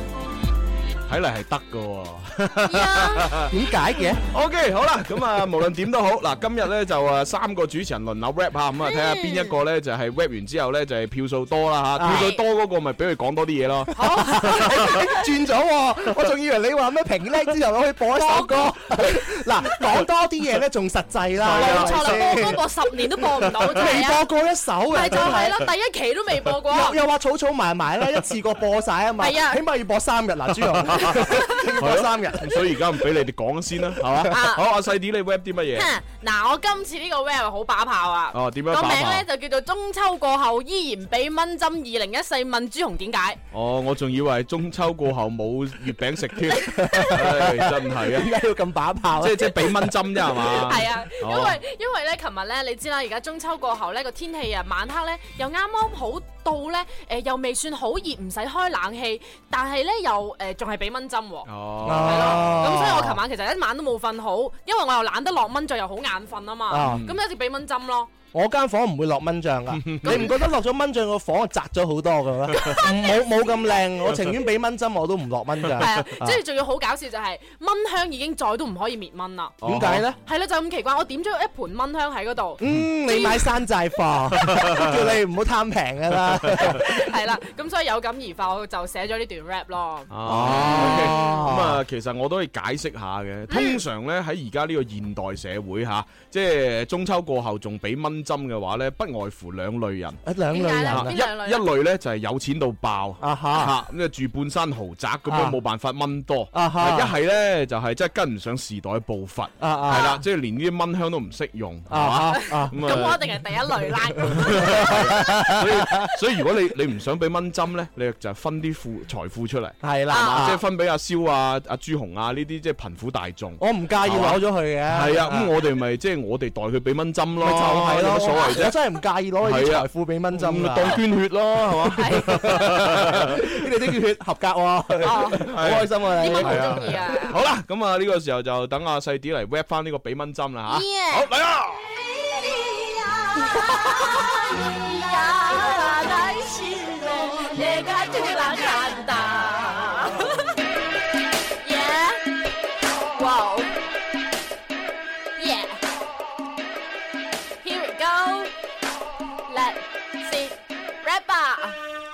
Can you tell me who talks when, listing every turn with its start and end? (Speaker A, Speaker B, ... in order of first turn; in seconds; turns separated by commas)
Speaker A: 1.1-3.5, Speaker B: 2.7-3.4, Speaker C: 3.5-4.2, Speaker A: 4.3-14.6, Speaker B: 8.9-9.5, Speaker C: 12.0-12.3, Speaker B: 12.0-12.4, Speaker B: 13.9-15.2, Speaker C: 14.1-22.6, Speaker B: 18.2-19.2, Speaker A: 21.4-22.6, Speaker B: 21.5-24.2, Speaker C: 23.4-25.6, Speaker B: 24.9-27.0, Speaker C: 26.6-32.6, Speaker B: 29.2-29.6, Speaker A: 30.9-31.2, Speaker B: 31.1-31.6, Speaker A: 31.8-35.9, Speaker B: 34.3-34.6, Speaker B: 35.8-43.4, Speaker A: 38.3-39.3, Speaker A: 43.5-48.4, Speaker C: 46.7-50.0, Speaker B: 46.8-47.1, Speaker A: 49.2-51.6, Speaker B: 50.3-68.1, Speaker A: 61.5-62.6, Speaker C: 61.8-63.2, Speaker C: 66.7-67.0, Speaker A: 66.8-67.2, Speaker C: 68.3-76.4, Speaker A: 69.7-70.3, Speaker B: 70.0-70.3, Speaker B: 75.8-79.6, Speaker A: 79.6-80.0, Speaker C: 79.6-80.2, Speaker B: 80.2-83.5, Speaker C: 82.6-87.0, Speaker A: 84.4-85.0, Speaker B: 86.6-91.4, Speaker A: 90.1-100.2, Speaker C: 90.2-91.8, Speaker B: 93.5-93.8, Speaker C: 100.2-101.1, Speaker B: 100.5-101.7, Speaker A: 100.9-113.2, Speaker C: 103.2-103.8, Speaker C: 105.3-105.6, Speaker C: 106.5-107.1, Speaker C: 109.6-110.1, Speaker B: 109.9-110.2, Speaker C: 111.9-112.8, Speaker B: 112.4-115.0, Speaker A: 114.3-128.8, Speaker C: 114.6-116.0, Speaker C: 119.8-120.6, Speaker B: 120.1-120.6, Speaker C: 123.6-125.5, Speaker C: 127.4-131.0, Speaker A: 129.4-133.5, Speaker B: 132.0-132.6, Speaker C: 132.0-137.1, Speaker B: 135.0-135.5, Speaker A: 135.4-141.9, Speaker B: 136.2-137.4, Speaker B: 140.7-141.3, Speaker B: 142.1-150.5, Speaker B: 151.6-152.2, Speaker B: 153.1-153.7, Speaker B: 155.4-155.8, Speaker B: 157.6-158.5, Speaker B: 159.5-161.8